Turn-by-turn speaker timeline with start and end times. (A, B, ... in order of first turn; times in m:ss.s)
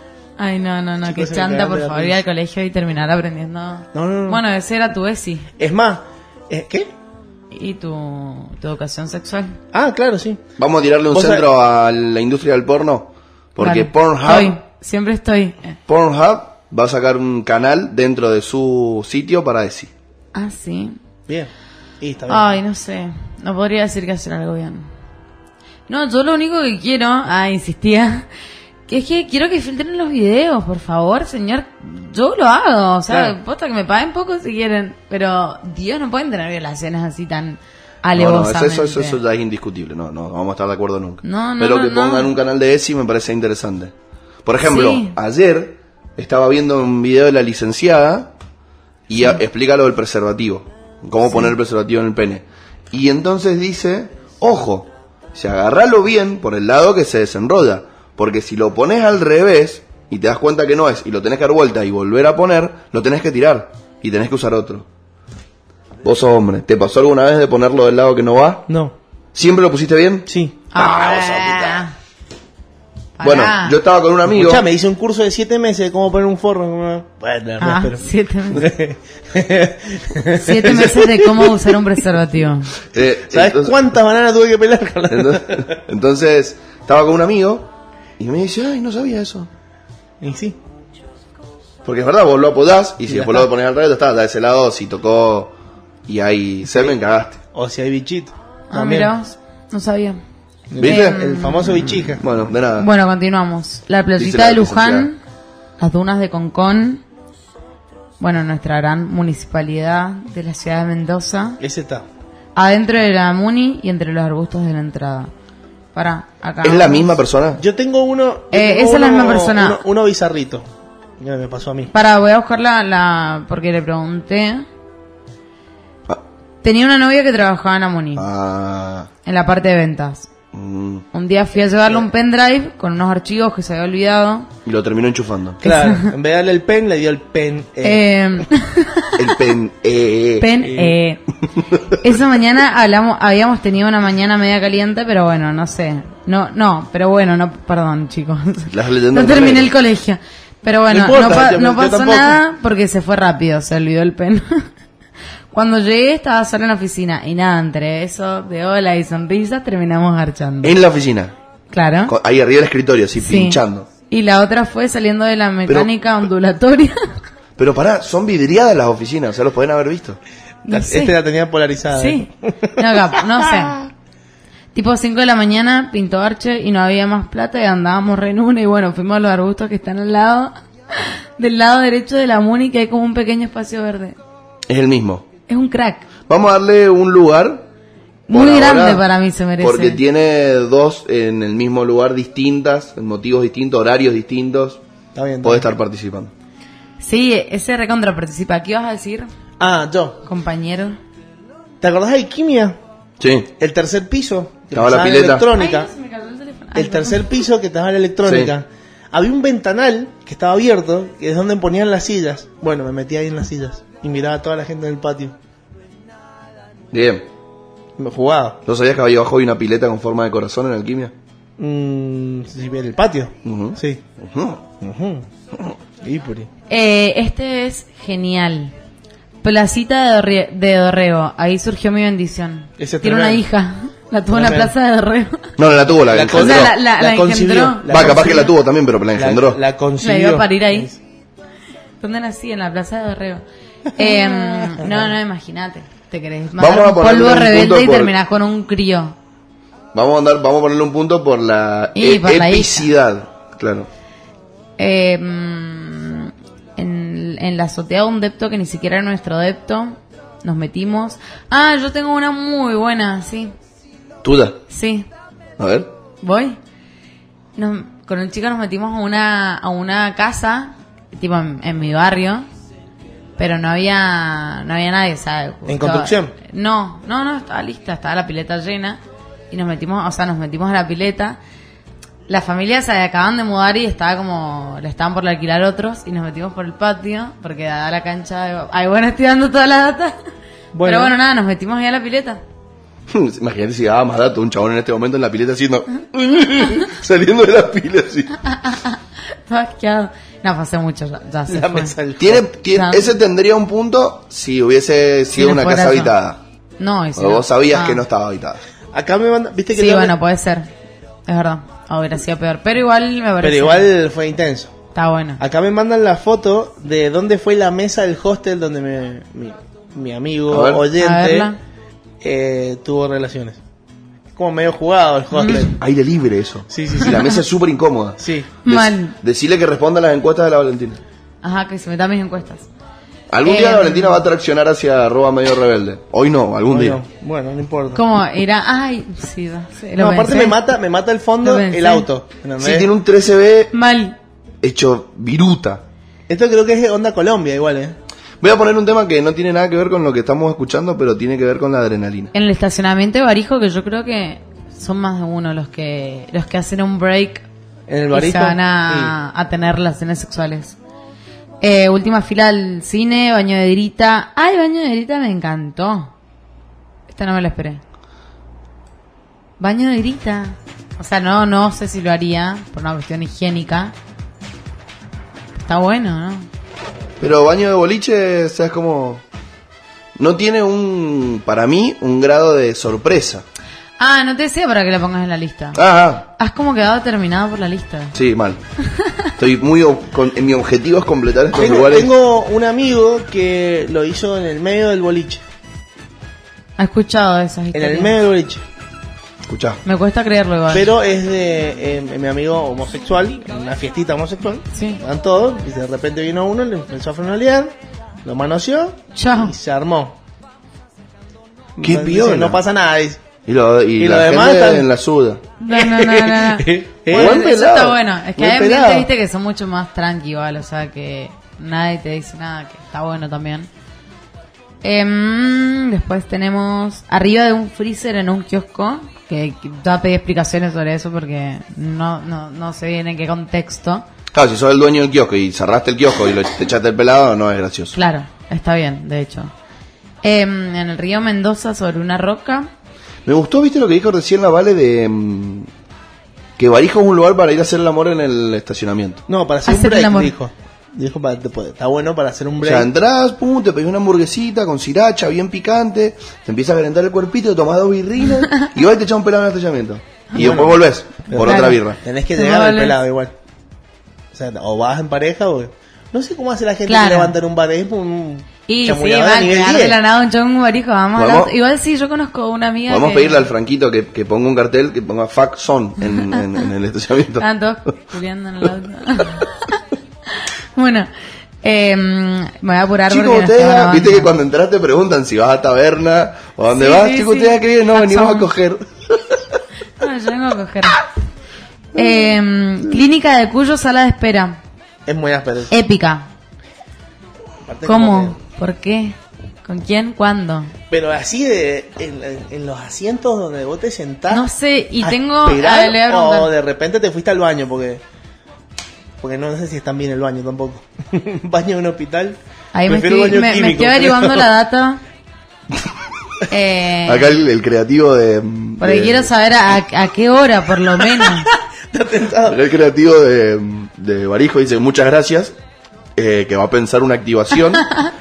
0:00.4-0:05.5 A
0:01.0-0:02.2 B
0:03.9-0:04.4 B
0:05.6-0:06.9 B
0:07.5-0:09.6 A
0:09.7-0:10.4 B
0:10.6-0:14.6 C
0:11.1-0:11.4 B
0:13.6-0:15.8 A
0:15.9-0:19.9 C
0:20.4-0:21.0 A
0:21.3-0:22.6 B
0:22.3-0:24.9 A
0:25.9-0:28.3 A
0:28.9-0:39.2 A
0:33.1-0:33.4 B
0:38.1-0:43.9 C
0:41.2-0:42.3 A
0:44.4-0:48.3 C
0:44.6-0:45.2 A
0:49.1-1:04.9 C
1:06.0-1:08.6 C
1:08.7-1:08.9 B
1:09.4-1:11.8 C
1:10.3-1:10.6 B
1:10.7-1:11.9 A
1:13.2-1:13.8 A
1:13.2-1:14.7 C
1:14.3-1:21.8 B
1:17.6-1:18.7 A
1:20.4-1:22.8 A
1:22.9-1:23.8 C
1:23.0-1:25.8 B
1:25.1-1:29.5 C
1:30.2-1:30.6 B
1:31.8-1:35.5 C
1:33.1-1:33.5 B
1:36.1-1:37.4 C
1:36.6-1:37.0 B
1:37.5-1:39.1 B
1:38.7-1:40.2 A
1:40.7-1:42.2 B
1:40.8-1:41.2 C
1:40.8-1:42.2 A
1:42.2-1:42.9 C
1:42.8-1:45.2 A
1:44.2-1:45.1 C
1:45.8-1:47.0 A
1:48.2-1:51.6 A
1:51.6-1:52.1 B
1:52.6-1:55.3 A
1:56.0-1:57.1 A
1:56.6-1:57.6 C
1:57.6-2:00.6 B
1:58.5-1:59.8 A
2:01.2-2:01.9 B
2:01.9-2:04.7 A
2:06.6-2:08.3 A
2:08.2-2:09.1 C
2:09.2-2:10.3 A
2:10.5-2:11.0 C
2:11.1-2:14.5 A
2:14.6-2:15.6 C
2:15.6-2:18.5 B
2:15.6-2:16.1 A
2:17.8-2:19.2 A
2:19.2-2:20.5 C
2:20.4-2:21.2 A
2:20.6-2:21.0 B
2:21.9-2:34.7 A
2:28.7-2:29.7 C
2:30.9-2:32.4 B
2:35.5-2:40.8 A
2:40.6-2:41.3 C
2:41.7-2:42.2 A
2:42.1-2:43.9 C
2:43.2-2:47.0 A
2:47.6-2:50.2 C
2:50.7-2:51.2 A
2:50.7-2:53.8 B
2:51.9-2:53.8 A
2:54.7-3:04.2 A
3:04.7-3:05.3 C
3:05.5-3:06.1 A
3:06.3-3:07.7 C
3:08.3-3:10.0 A
3:08.3-3:09.0 C
3:09.6-3:14.8 C
3:15.2-3:15.7 B
3:15.4-3:16.3 C
3:17.0-3:19.3 A
3:19.6-3:20.2 B
3:20.2-3:21.0 A
3:21.8-3:22.8 B
3:23.2-3:23.5 C
3:23.6-3:25.9 B
3:24.7-3:25.5 C
3:25.3-3:27.4 A
3:26.8-3:35.4 B
3:28.2-3:28.5 C
3:36.9-3:37.3 C
3:38.0-3:38.6 B
3:38.6-3:41.1 C
3:41.6-3:44.0 B
3:43.4-3:44.6 C
3:44.8-3:45.3 B
3:46.0-3:46.5 B
3:46.7-3:48.7 A
3:49.4-3:55.5 A
3:52.8-3:53.4 B
3:54.3-3:54.7 B
3:55.6-3:56.7 C
3:56.1-3:58.6 B
3:56.3-3:58.4 A
3:57.9-3:59.6 C
3:59.1-4:01.0 B
4:00.0-4:00.9 A
4:02.0-4:03.4 A
4:04.0-4:09.2 A
4:04.0-4:05.1 B
4:06.6-4:08.1 C
4:09.9-4:13.9 C
4:12.0-4:12.9 A
4:14.8-4:23.5 A
4:24.2-4:24.6 C
4:24.7-4:25.1 A
4:25.6-4:25.9 C
4:26.2-4:26.6 A
4:27.6-4:32.5 A
4:33.4-4:41.4 A
4:35.7-4:36.4 B
4:42.3-4:50.2 A
4:50.7-4:51.2 B
4:50.8-4:52.4 A
4:53.1-4:58.4 C
4:58.4-5:02.0 A
5:01.5-5:02.5 B
5:02.2-5:06.4 C
5:02.7-5:03.1 A
5:05.4-5:06.2 A
5:06.8-5:08.0 A
5:07.2-5:08.6 C
5:08.9-5:10.1 B
5:09.7-5:10.7 A
5:11.3-5:13.9 A
5:13.4-5:14.7 B
5:15.0-5:15.4 A
5:15.4-5:21.5 B
5:20.5-5:20.9 C
5:20.9-5:21.6 A
5:22.2-5:23.6 B
5:24.4-5:25.8 B
5:25.3-5:25.7 A
5:25.5-5:31.0 C
5:26.7-5:27.2 B
5:28.2-5:28.5 B
5:28.6-5:29.2 A
5:31.4-5:32.7 A
5:33.3-5:37.0 C
5:33.4-5:34.2 A
5:36.7-5:38.0 B
5:37.9-5:40.6 A
5:40.0-5:42.9 B
5:41.4-5:42.1 A
5:42.6-5:43.7 C
5:43.7-5:44.2 A
5:44.6-5:45.8 C
5:46.3-5:48.0 B
5:48.4-5:52.3 C
5:52.3-5:57.4 A
5:57.9-5:59.2 B
5:58.1-6:00.8 A
6:01.6-6:06.1 A
6:07.1-6:07.8 A
6:09.6-6:14.0 A
6:15.6-6:16.5 A
6:17.2-6:19.2 C
6:20.2-6:23.4 C
6:24.0-6:25.8 A
6:25.7-6:26.3 C
6:26.4-6:28.2 A
6:28.1-6:28.6 C
6:28.8-6:29.3 A
6:29.4-6:32.1 C
6:31.5-6:35.4 B
6:36.8-6:38.1 A
6:37.7-6:38.6 B
6:39.5-6:39.8 C
6:39.8-6:40.9 A
6:40.7-6:47.7 B
6:44.7-6:45.0 A
6:48.2-6:50.2 B
6:49.2-6:49.6 A
6:51.8-6:53.3 B
6:51.8-6:52.6 C
6:53.5-6:55.4 C
6:54.0-6:54.9 B
6:55.6-7:03.7 A
6:55.7-6:57.4 B
6:57.1-6:58.0 C
6:58.4-6:59.1 B
7:04.8-7:14.1 A
7:14.3-7:18.0 C
7:17.9-7:19.5 A
7:20.2-7:22.7 A
7:23.2-7:25.7 C
7:26.6-7:29.2 C
7:29.3-7:32.9 B
7:29.7-7:30.3 A
7:32.6-7:42.0 C
7:40.4-7:43.3 B
7:41.4-7:41.8 A
7:42.4-7:43.0 A
7:44.3-7:50.0 B
7:46.9-7:47.4 A
7:48.7-7:53.5 A
7:51.2-7:51.5 C
7:52.9-7:57.5 C
7:57.4-7:59.8 A
8:00.3-8:01.1 A
8:01.6-8:04.3 A
8:03.1-8:09.4 C
8:06.7-8:08.5 A
8:10.0-8:11.0 A
8:11.9-8:14.6 A
8:15.1-8:15.7 B
8:15.7-8:16.3 A
8:17.7-8:18.4 B
8:17.9-8:20.7 A
8:20.9-8:24.5 B
8:24.3-8:26.5 A
8:25.0-8:28.0 B
8:29.2-8:34.5 B
8:32.7-8:35.0 A
8:36.5-8:37.4 A
8:37.0-8:39.3 C
8:38.8-8:41.5 A
8:41.1-8:42.6 B
8:42.4-8:45.6 C
8:46.2-8:47.9 C
8:47.8-8:48.1 A